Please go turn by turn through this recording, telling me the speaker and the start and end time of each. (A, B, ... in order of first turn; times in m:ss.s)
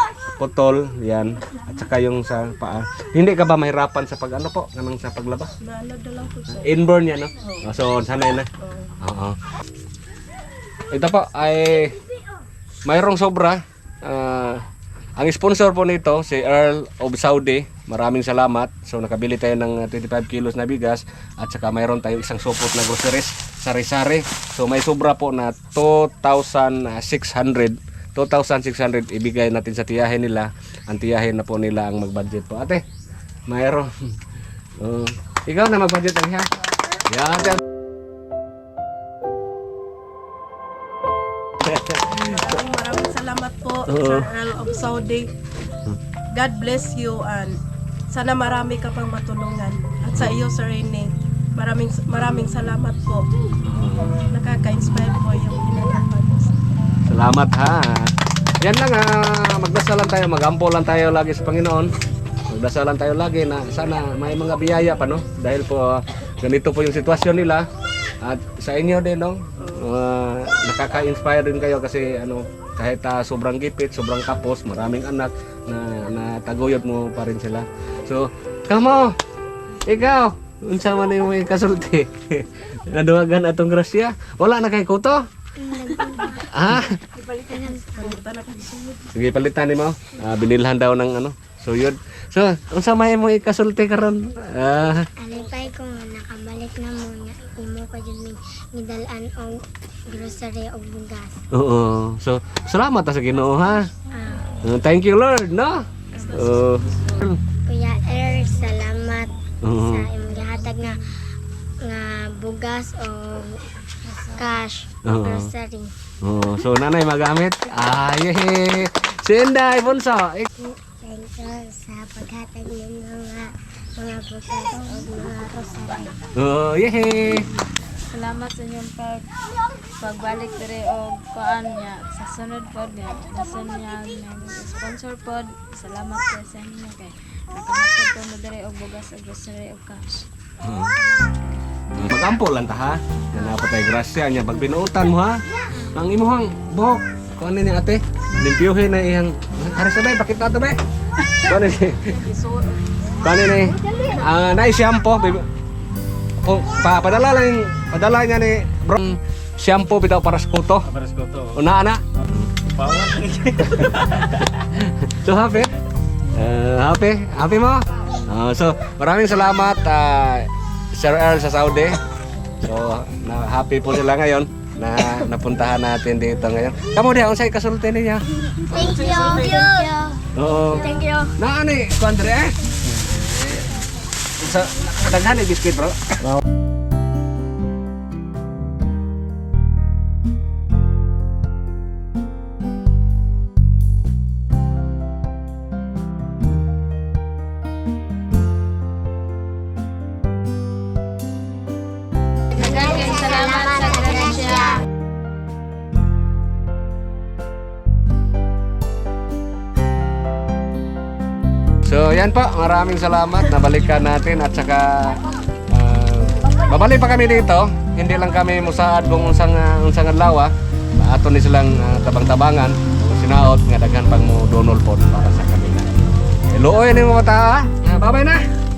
0:00.3-0:05.5 A
0:05.6-0:06.7 B
0:06.6-0:08.5 A
0:08.6-0:08.9 B
0:09.0-0:09.4 A
0:10.9-0:12.0 A
0:12.8-0:14.6 A
0:15.2-0:32.8 A
0:33.5-0:34.2 A
0:34.8-0:36.5 A
0:37.0-0:37.6 A
0:41.6-0:42.4 A
0:42.3-0:45.3 B
0:43.9-0:44.3 A
0:46.3-0:53.3 B
0:53.6-0:54.2 A
0:54.3-0:56.5 B
0:57.0-1:01.9 A
1:02.5-1:07.7 A
1:08.2-1:19.2 A
1:19.8-1:25.2 A
1:25.6-1:26.4 C
1:26.5-1:27.0 A
1:27.2-1:29.0 B
1:27.4-1:28.1 C
1:29.1-1:35.1 A
1:35.2-1:41.4 C
1:41.5-1:43.9 A
1:44.1-1:44.5 C
1:44.6-1:47.4 A
1:46.1-1:47.2 B
1:47.6-1:51.0 C
1:49.6-1:50.1 A
1:51.8-1:53.6 C
1:54.2-1:55.9 C
1:55.0-1:55.5 A
1:56.2-2:00.5 A
2:00.6-2:06.2 C
2:05.8-2:06.1 D
2:06.3-2:07.5 A
2:08.1-2:09.3 D
2:10.0-2:20.2 D
2:20.6-2:21.0 A
2:20.8-2:21.8 D
2:21.9-2:30.8 A
2:31.4-2:32.2 A
2:32.2-2:32.8 B
2:33.2-2:35.5 A
2:36.4-2:45.7 A
2:46.3-2:52.0 A
2:52.6-2:58.2 A
2:58.6-3:01.3 C
2:58.9-2:59.9 D
3:00.3-3:00.8 A
3:01.4-3:03.7 A
3:04.4-3:06.4 A
3:22.5-3:24.8 D
3:22.6-3:24.8 C
3:31.8-3:48.4 A